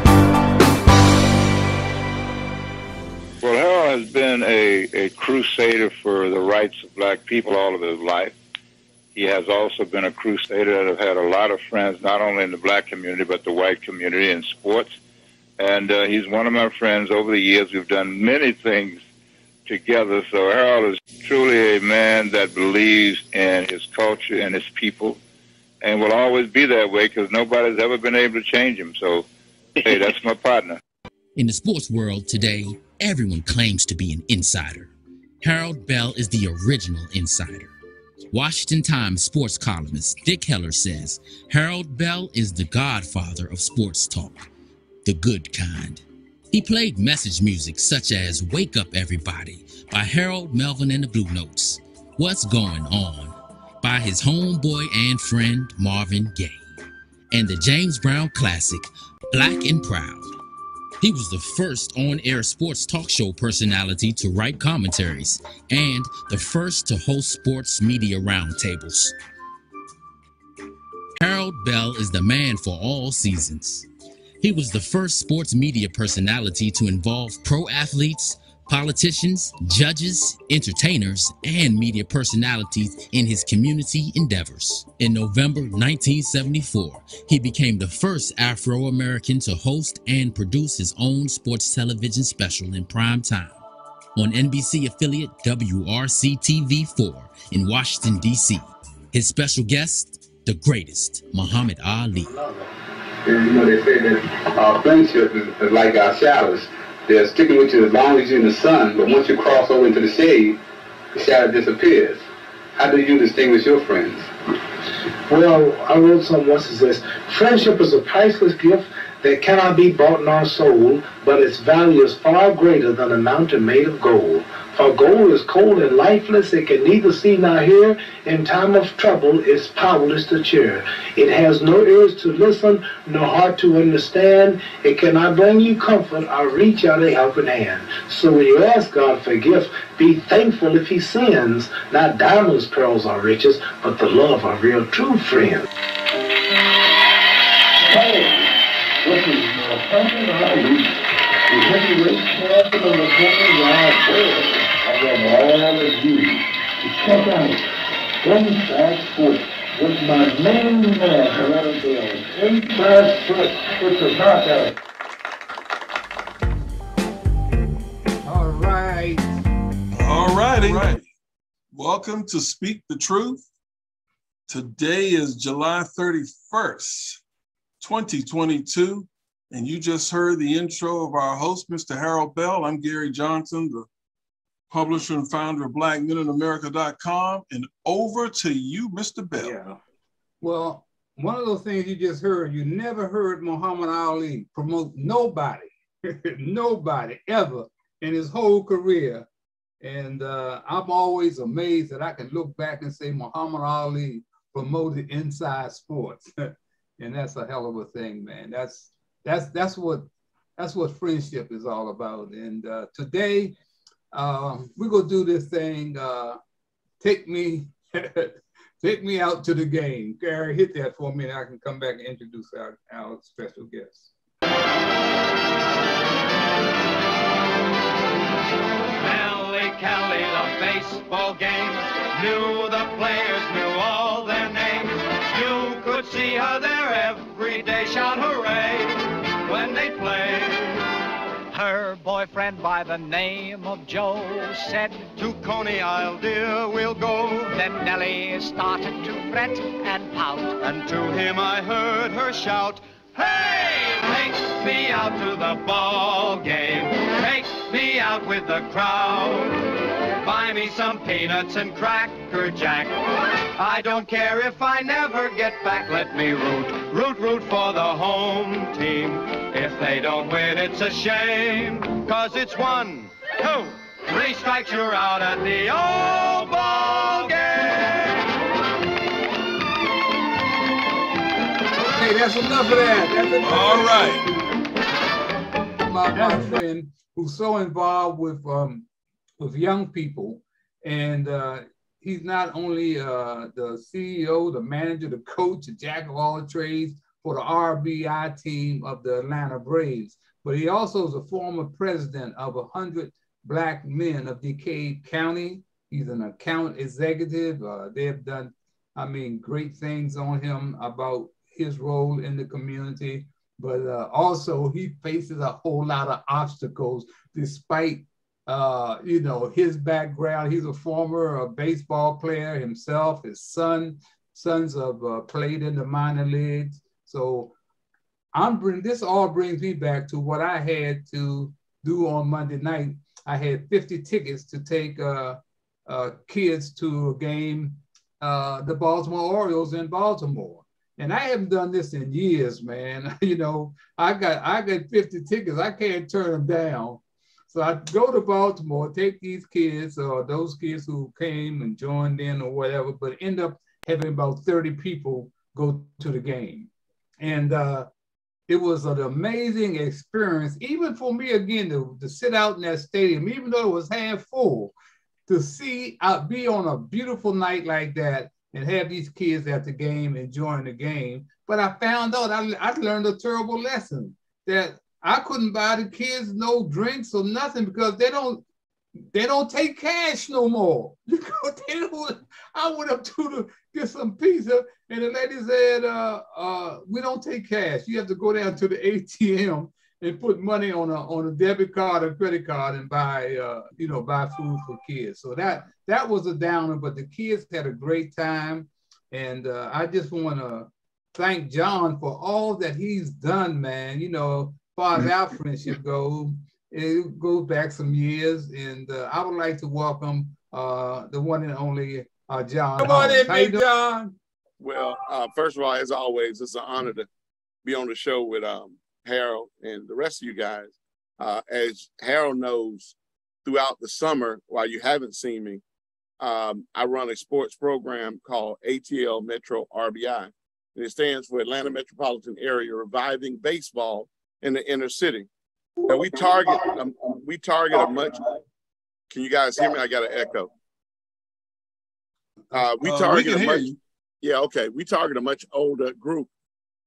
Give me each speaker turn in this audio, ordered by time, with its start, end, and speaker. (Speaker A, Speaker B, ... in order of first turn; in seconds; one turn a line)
Speaker A: 3.4-8.3
Speaker A: 9.1-14.9
Speaker A: 15.6-19.0
Speaker A: 19.6-25.2
Speaker A: 25.8-29.3
Speaker A: 29.8-30.8
Speaker B: 31.4-37.7
Speaker B: 38.3-44.5
Speaker B: 45.0-56.7
Speaker B: 57.3-60.3
Speaker B: 61.0-69.2
Speaker B: 71.2-73.9
Speaker B: 74.4-93.6
Speaker B: 94.1-102.4
Speaker C: 103.2-110.6
Speaker C: 111.1-112.2
Speaker C: 112.8-114.3
Speaker D: 115.3-145.7
Speaker E: 147.8-157.6
Speaker E: 158.2-164.8
Speaker F: 168.2-169.3
Speaker G: 169.9-171.0
Speaker F: 170.5-170.9
Speaker G: 171.7-173.4
Speaker G: 174.5-177.2
Speaker G: 177.8-183.9
Speaker G: 184.7-189.6
Speaker F: 189.4-189.7
Speaker F: 190.4-199.3
Speaker F: 199.8-213.5
Speaker F: 214.1-216.4
Speaker F: 217.0-224.1
Speaker H: 229.0-278.3
Speaker F: 281.7-284.2
Speaker G: 283.4-284.3
Speaker F: 285.8-288.9
Speaker F: 289.4-327.5
Speaker F: 328.3-357.9
Speaker F: 358.5-364.7
Speaker F: 365.3-378.4
Speaker F: 379.1-414.1
Speaker I: 414.6-417.1
Speaker I: 417.6-422.9
Speaker I: 423.4-425.6
Speaker I: 426.2-435.3
Speaker I: 435.9-438.2
Speaker I: 439.1-440.5
Speaker I: 442.5-443.7
Speaker G: 442.8-443.8
Speaker I: 444.2-446.3